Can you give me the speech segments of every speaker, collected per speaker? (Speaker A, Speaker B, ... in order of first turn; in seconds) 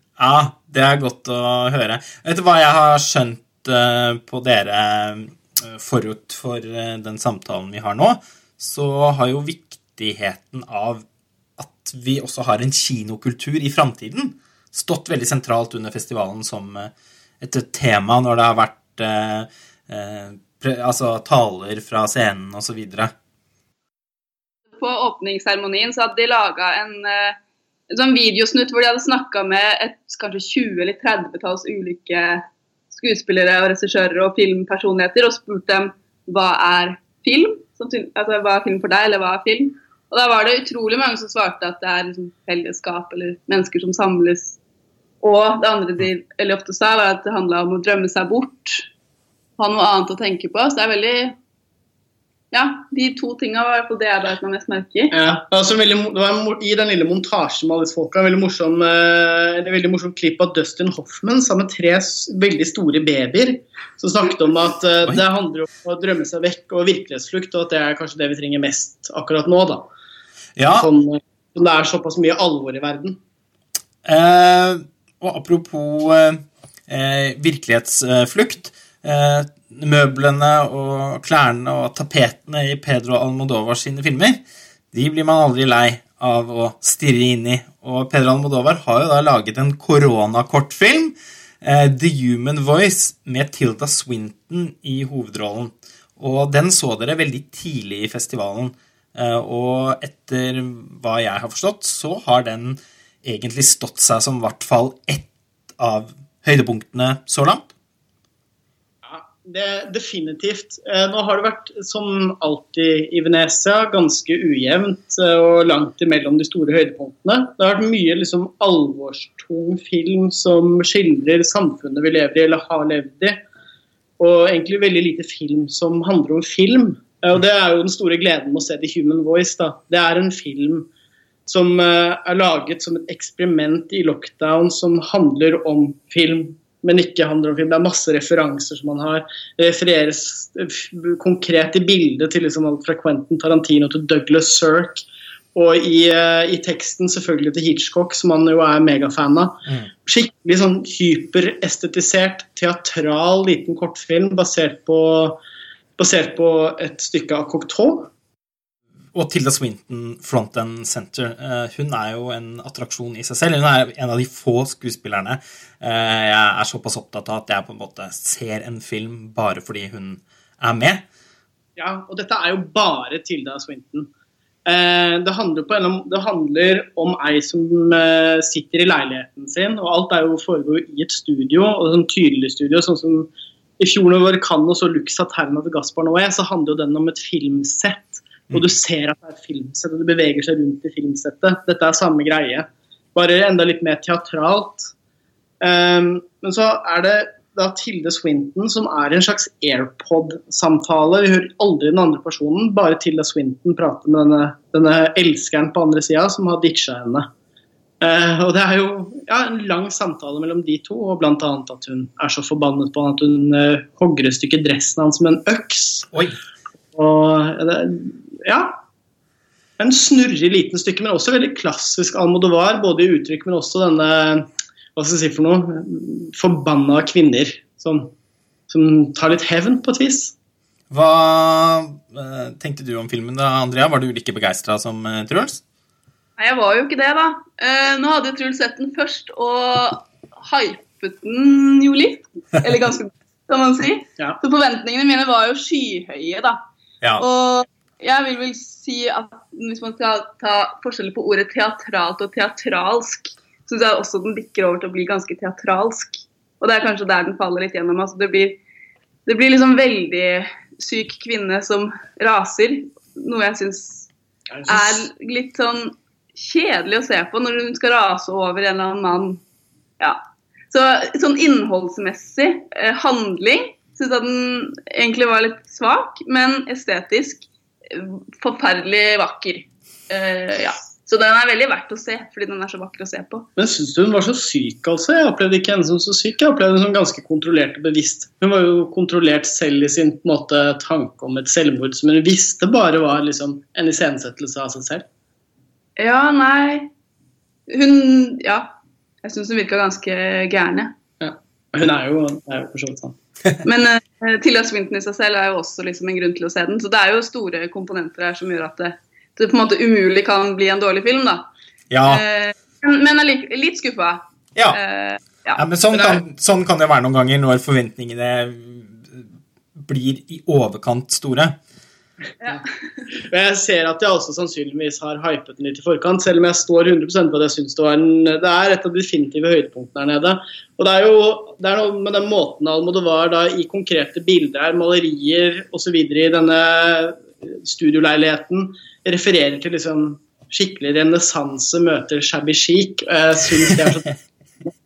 Speaker A: 0.2-11.1, 11.6-16.9, 17.4-23.1, 70.6-70.9, 74.0-84.4, 84.9-105.3, 105.8-107.7, 159.1-171.1, 216.1-216.4, 230.9-235.6, 311.9-312.2, 315.6-321.6
Speaker B: 24.8-27.4, 27.9-44.6, 45.2-48.9, 49.6-51.4, 52.5-55.1, 236.4-246.6, 247.2-258.6, 259.3-264.1, 264.7-269.4, 270.0-283.5, 296.0-296.9, 297.7-300.9, 303.6-311.5, 312.1-315.6, 322.4-323.0
Speaker C: 55.1-69.9, 70.7-73.2, 109.0-123.4, 124.2-130.9, 131.5-145.0, 145.6-155.4, 156.0-158.1, 171.8-174.1, 174.7-194.9, 195.6-207.3, 208.0-216.1, 216.9-218.8, 219.8-228.1, 228.7-230.3, 264.5-265.0, 283.6-295.1, 301.2-303.2, 323.2-344.1